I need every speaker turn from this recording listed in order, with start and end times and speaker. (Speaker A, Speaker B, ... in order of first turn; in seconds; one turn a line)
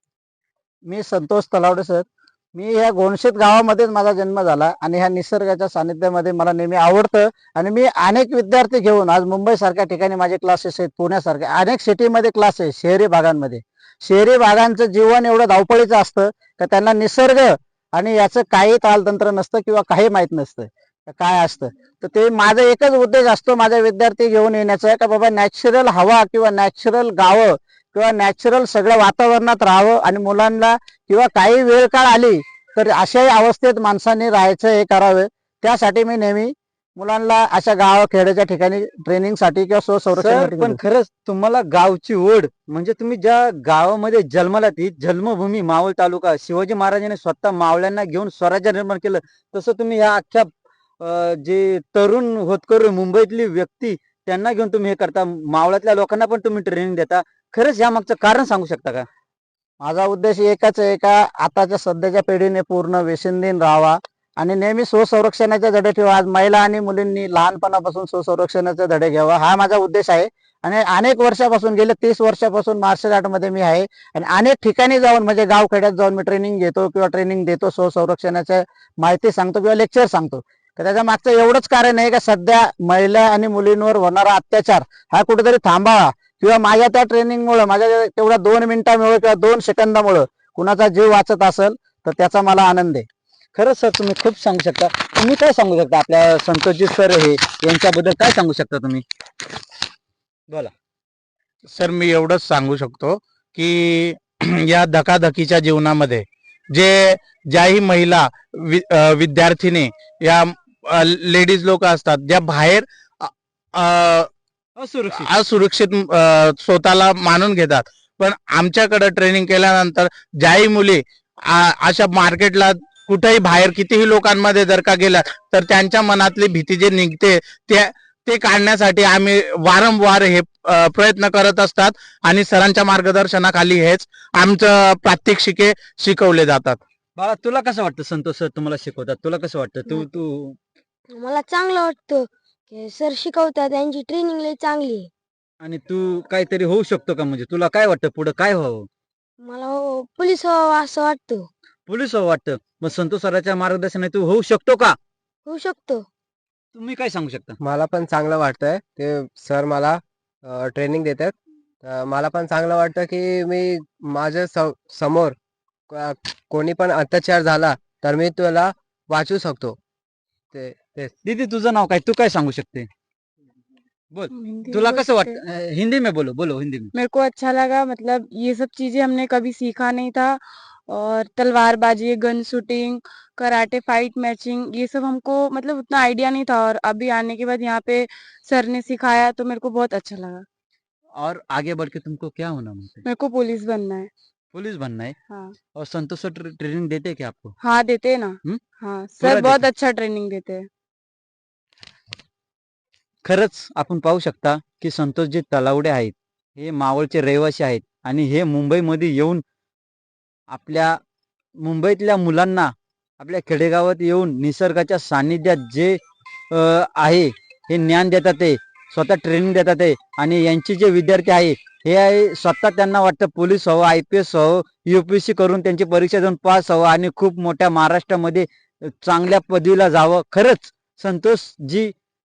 Speaker A: 0.8-40.8
Speaker B: 40.1-59.1
Speaker A: 59.8-93.1
Speaker B: 93.5-99.0
Speaker C: 101.7-114.3
Speaker B: 114.8-115.3
Speaker C: 115.1-136.8
Speaker B: 137.2-140.6
Speaker D: 139.9-140.2
Speaker D: 141.1-145.1
Speaker B: 145.6-148.9
Speaker D: 149.4-151.5
Speaker B: 151.9-154.9
Speaker D: 155.4-156.1
Speaker B: 156.7-157.6
Speaker E: 157.6-165.3
Speaker E: 165.9-169.8
Speaker E: 170.5-171.1
Speaker B: 171.2-172.9
Speaker B: 174.1-176.9
Speaker F: 174.3-175.4
Speaker F: 176.9-190.4
Speaker B: 191.2-193.0
Speaker F: 193.1-194.1
Speaker B: 194.5-195.2
Speaker B: 195.8-197.5
Speaker F: 197.6-200.7
Speaker B: 199.2-199.6
Speaker B: 203.2-209.4
Speaker B: 210.5-211.0
Speaker B: 211.6-216.0
Speaker B: 216.5-231.9